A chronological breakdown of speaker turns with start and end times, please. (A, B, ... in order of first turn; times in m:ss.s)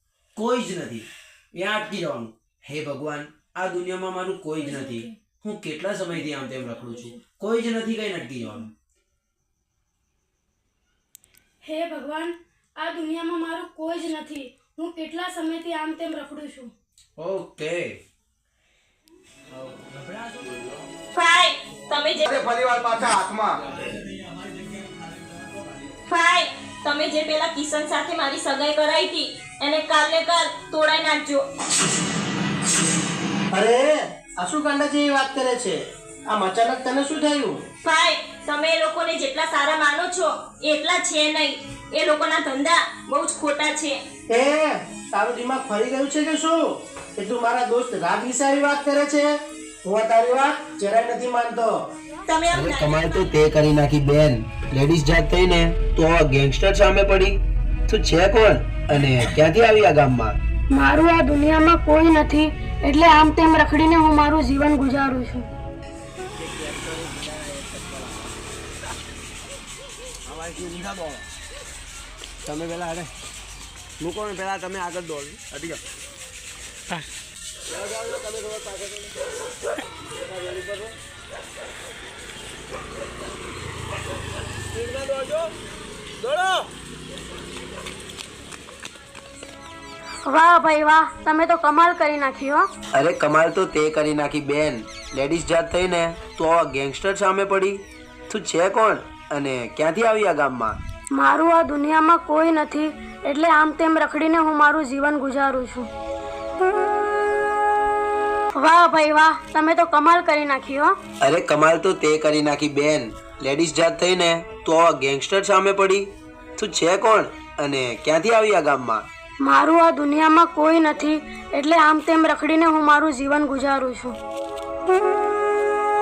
0:00.4-0:08.7 A
0:04.6-0:05.2 B
0:06.2-0:07.2 B
0:11.6-0:16.7 B
0:17.2-0:18.0 A
0:20.0-0:20.5 A
0:21.2-0:22.5 C
0:22.3-0:23.6 D
0:26.1-0:31.4 C
0:33.5-0:37.6 D
0:37.8-0:44.0 C
0:44.3-0:49.3 D
0:49.8-0:51.8 D
0:52.3-0:53.3 C
0:52.5-1:00.4 A
1:00.7-1:05.5 B
1:06.4-1:08.1 E
1:10.3-1:11.2 E
1:12.5-1:13.1 E
1:14.0-1:15.8 E
1:17.7-1:19.1 E
1:20.2-1:20.9 E
1:24.7-1:25.5 E
1:26.2-1:26.6 E
1:30.2-1:32.7 B
1:32.9-1:40.8 A
1:41.1-1:45.9 B
1:48.5-1:51.0 B
1:51.2-1:59.1 A
1:59.4-2:04.2 B